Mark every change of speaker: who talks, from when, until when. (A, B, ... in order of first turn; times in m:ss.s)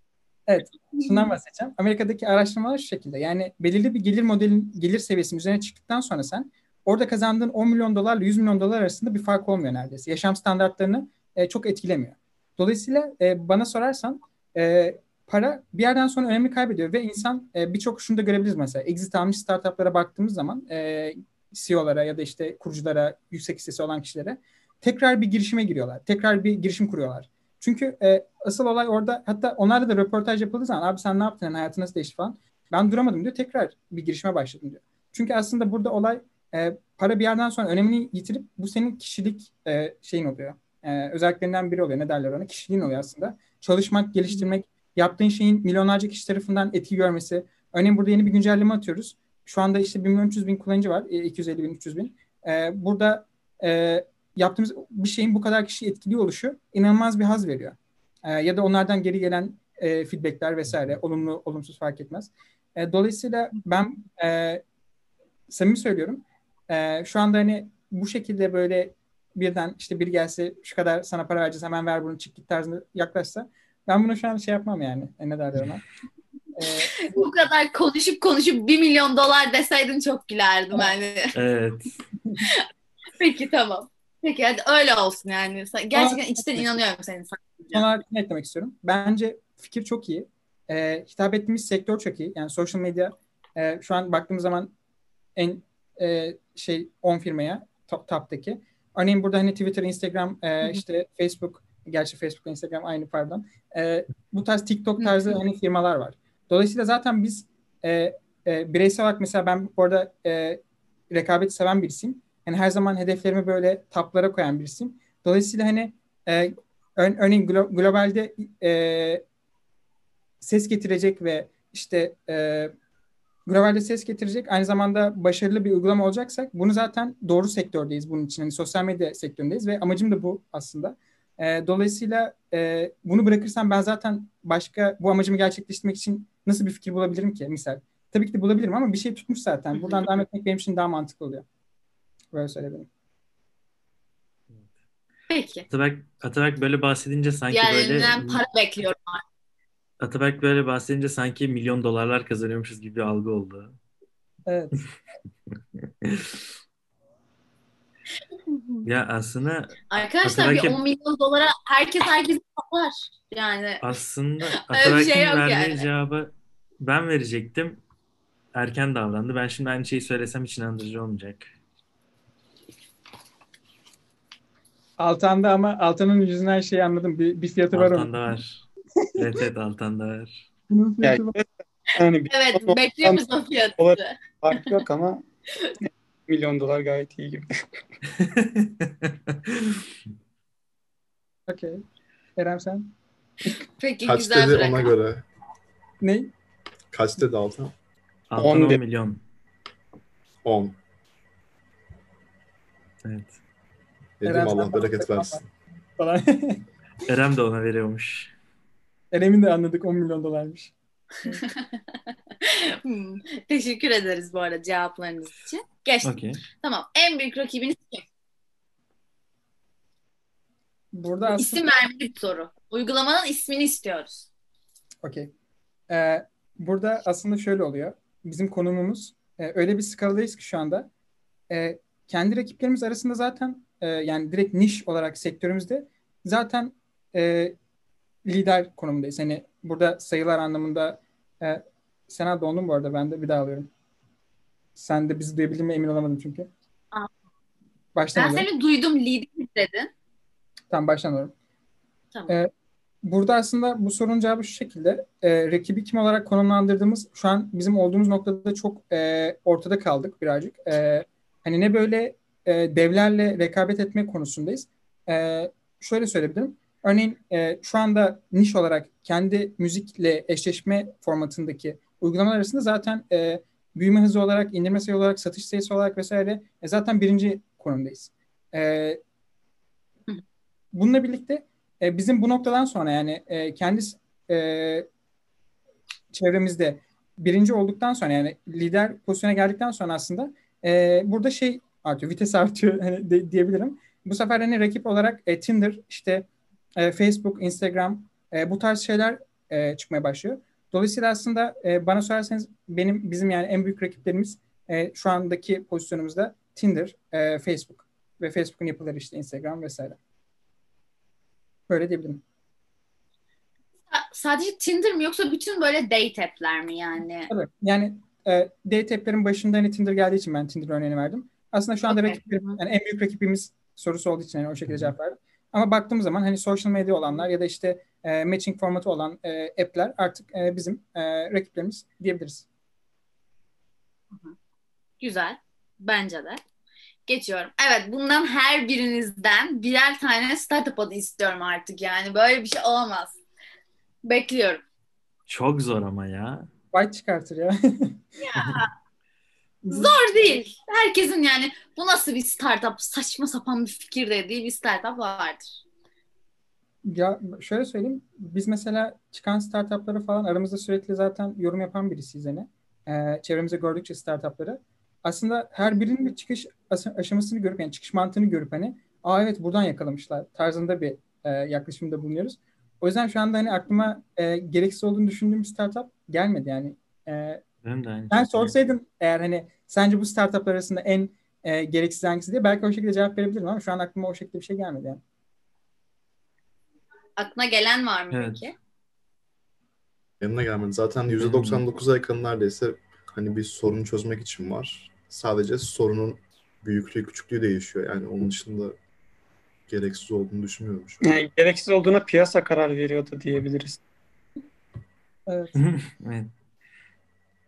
0:00.5-1:04.6 A
0:00.9-0:01.3 B
1:05.5-1:15.8 A
1:16.6-1:17.2 A
1:16.9-1:21.3 B
1:21.4-1:21.9 C
1:22.4-1:22.7 B
1:23.2-1:27.9 B
1:25.9-1:26.8 A
1:27.7-1:34.7 A
1:35.4-1:59.2 A
1:45.0-1:45.3 B
2:00.4-2:02.7 A
2:03.5-2:21.4 A
2:19.8-2:20.1 B
2:22.3-2:22.9 A
2:25.3-2:25.7 B
2:25.7-2:28.4 C
2:27.5-2:29.2 B
2:30.0-2:33.8 C
2:34.5-2:34.8 A
2:36.0-2:36.4 C
2:38.5-2:38.9 B
2:38.9-2:40.8 C
2:39.9-2:43.8 B
2:43.8-2:46.3 C
2:44.7-2:45.9 B
2:46.8-2:47.8 C
2:48.6-2:51.5 C
2:55.0-2:58.2 A
2:57.7-2:58.6 C
2:59.0-2:59.3 A
2:59.2-3:00.4 C
3:00.7-3:01.4 A
3:01.0-3:03.3 D
3:02.3-3:04.7 B
3:03.8-3:05.2 D
3:05.8-3:07.4 D
3:08.2-3:09.8 C
3:11.5-3:11.8 A
3:12.4-3:12.9 A
3:13.8-3:14.9 B
3:14.0-3:15.2 E
3:16.0-3:16.3 A
3:16.9-3:17.7 E
3:18.3-3:19.2 C
3:18.4-3:18.8 D
3:20.4-3:20.8 E
3:23.0-3:23.4 C
3:24.2-3:25.5 E
3:24.3-3:25.4 A
3:26.0-3:26.6 A
3:27.0-3:28.3 C
3:29.1-3:30.7 A
3:31.2-3:38.0 B
3:36.0-3:36.4 C
3:40.9-3:41.6 A
3:41.3-3:44.3 B
3:45.0-3:45.3 A
3:45.9-3:50.9 A
3:51.5-3:57.6 A
3:58.3-4:03.7 A
4:04.8-4:06.5 A
4:08.0-4:08.5 A
4:08.2-4:09.9 B
4:10.7-4:11.3 A
4:13.0-4:39.0 A
4:40.7-4:44.9 A
4:46.1-5:10.0 A
5:11.7-5:12.2 A
5:13.9-5:17.3 B
5:17.3-5:32.5 A
5:21.9-5:22.6 B
5:35.0-5:36.4 B
5:37.1-5:43.2 B
5:44.0-5:44.6 B
5:45.3-5:46.5 C
5:46.7-5:48.0 A
5:48.2-5:48.7 B
5:49.6-5:50.0 A
5:49.7-5:55.4 B
5:56.8-6:17.4 A
6:17.6-6:18.5 C
6:18.1-6:25.0 A
6:27.2-6:28.5 B
6:28.1-6:28.4 C
6:30.2-6:38.8 E
6:31.1-6:31.6 C
6:39.7-6:41.0 E
6:41.0-6:43.8 D
6:45.3-6:45.6 A
6:45.6-6:46.3 C